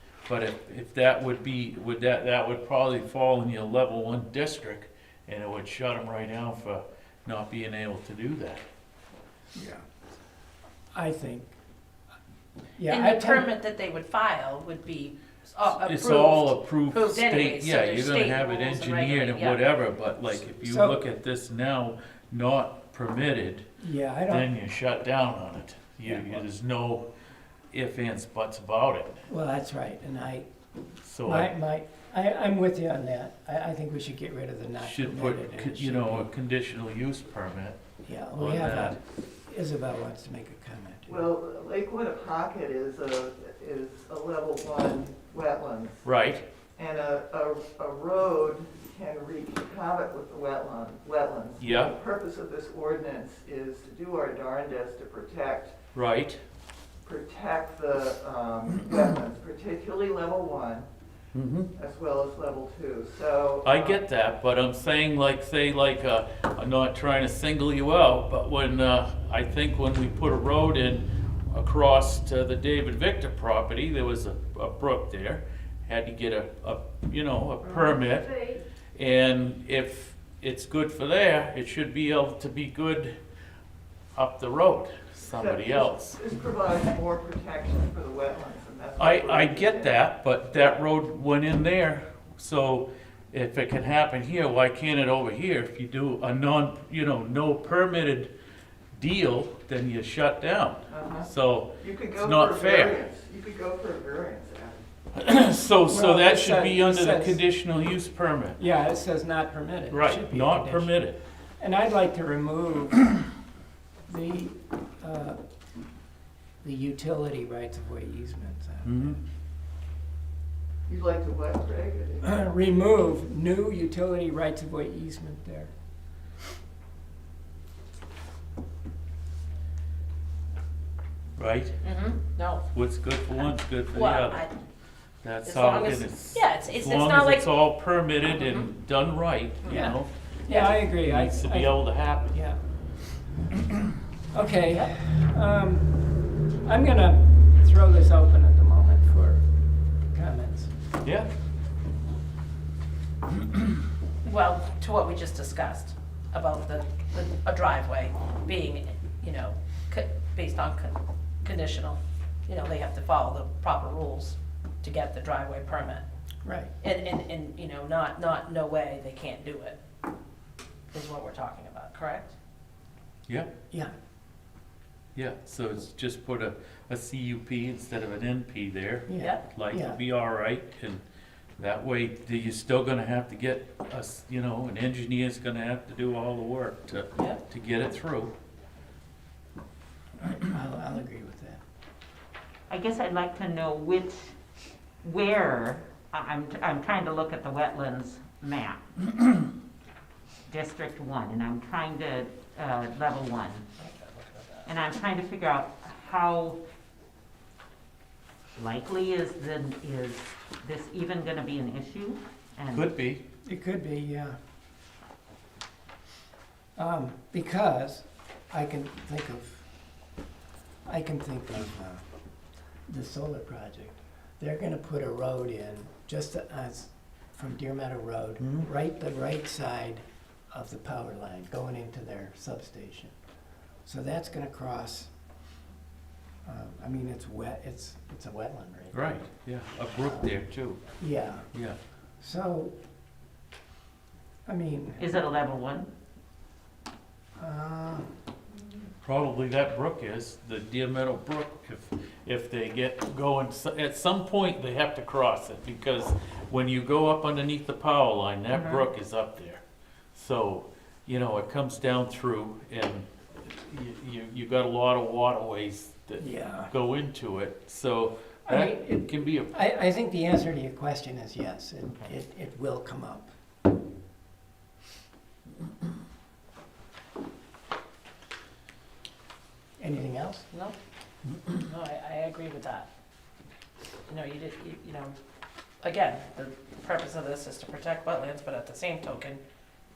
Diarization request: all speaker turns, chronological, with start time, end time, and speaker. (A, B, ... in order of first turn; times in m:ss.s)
0:00.3-0:08.6 A
0:09.5-0:09.8 B
0:10.9-0:11.5 B
0:12.8-0:13.5 B
0:12.9-0:19.6 C
0:15.7-0:23.7 A
0:20.6-0:21.0 B
0:23.8-0:24.5 B
0:24.3-0:27.0 A
0:26.0-0:26.4 B
0:27.7-0:29.2 A
0:29.3-0:30.5 B
0:31.0-0:31.5 A
0:31.2-0:36.3 B
0:34.8-0:37.8 A
0:38.0-0:41.3 B
0:38.3-0:39.0 A
0:41.1-0:46.0 D
0:46.0-0:46.4 A
0:46.8-0:55.7 D
0:51.6-0:51.9 A
0:55.9-0:56.4 A
0:57.0-1:00.9 D
1:01.3-1:01.7 A
1:01.7-1:04.0 D
1:03.6-1:23.1 A
1:24.1-1:26.2 A
1:25.2-1:30.8 D
1:29.0-1:38.3 A
1:38.9-1:43.0 A
1:40.9-1:44.8 D
1:45.1-1:48.6 A
1:45.9-1:47.4 B
1:48.6-1:51.0 B
1:49.9-1:51.2 A
1:51.6-1:53.2 B
1:54.1-1:55.4 B
1:56.6-1:59.2 B
1:58.8-1:59.2 A
2:00.9-2:02.4 D
2:02.2-2:05.7 B
2:11.4-2:11.7 A
2:11.8-2:12.7 C
2:12.7-2:14.4 A
2:13.9-2:14.5 C
2:15.2-2:20.1 A
2:15.4-2:17.5 C
2:18.4-2:18.7 C
2:19.6-2:19.9 C
2:19.6-2:22.6 B
2:20.5-2:20.8 C
2:20.8-2:22.4 A
2:24.3-2:29.4 B
2:30.1-2:30.7 B
2:31.0-2:31.3 A
2:34.2-2:46.0 C
2:46.4-2:46.7 B
2:46.8-2:49.8 C
2:50.9-2:52.3 C
2:55.1-3:01.0 A
2:59.1-3:00.0 B
3:01.6-3:08.3 A
3:07.2-3:07.4 C
3:10.2-3:11.6 B
3:12.7-3:14.3 E
3:15.0-3:19.4 E
3:20.5-3:23.6 E
3:23.8-3:24.7 C
3:24.6-3:26.6 E
3:28.6-3:32.9 E
3:32.7-3:33.2 A
3:33.4-3:34.4 B
3:36.8-3:39.7 B
3:40.8-3:42.0 B
3:42.9-3:53.2 B
3:48.4-3:48.6 A
3:53.8-3:55.1 B
3:56.4-3:59.2 B
3:58.9-4:01.0 A
4:00.0-4:00.4 B
4:01.0-4:01.5 B
4:01.5-4:01.8 A
4:02.2-4:02.7 B
4:04.4-4:05.0 B
4:05.0-4:05.9 E
4:07.4-4:08.1 B
4:09.0-4:19.6 A
4:18.5-4:18.8 E
4:20.1-4:29.5 A
4:26.2-4:26.7 B
4:28.4-4:33.3 B
4:31.8-4:32.1 E
4:39.8-4:40.5 B
4:41.4-4:42.9 C
4:44.1-4:45.2 C
4:45.8-4:49.4 C